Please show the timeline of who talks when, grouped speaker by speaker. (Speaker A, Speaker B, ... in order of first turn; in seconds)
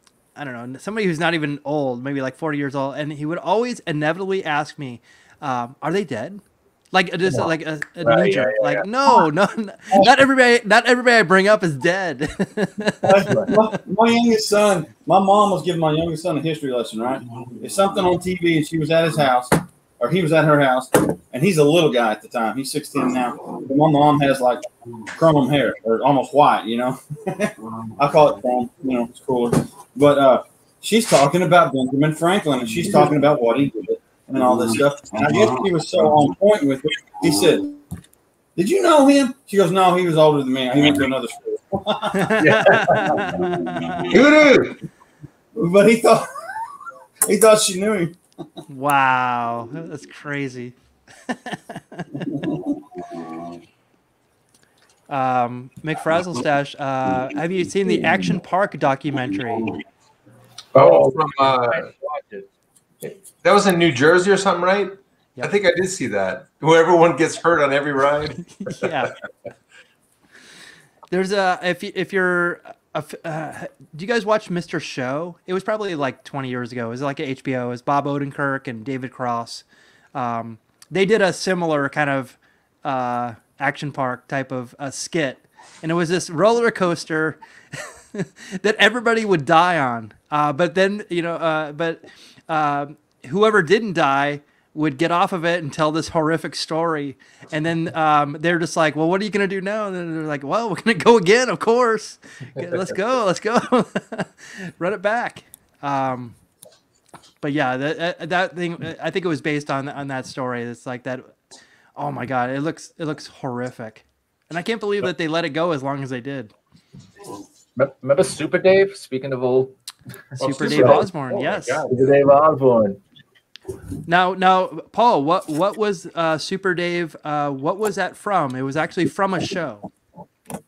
Speaker A: 0.4-13.5, 42.1-44.1, 48.7-50.7, 51.3-52.3, 55.1-59.8, 68.6-69.1, 71.1-106.3, 107.4-111.3, 112.0-116.5, 120.4-121.9, 124.1-129.9
Speaker B: 8.0-8.8, 42.4-43.2, 44.1-44.8, 60.7-61.9, 63.4-68.9, 120.4-121.9
Speaker C: 13.1-37.8, 38.6-44.5, 45.6-46.3, 47.3-48.2, 52.3-53.4
Speaker D: 13.2-13.5, 57.9-58.4, 60.7-62.5, 117.8-119.8, 120.4-121.1, 121.9-123.0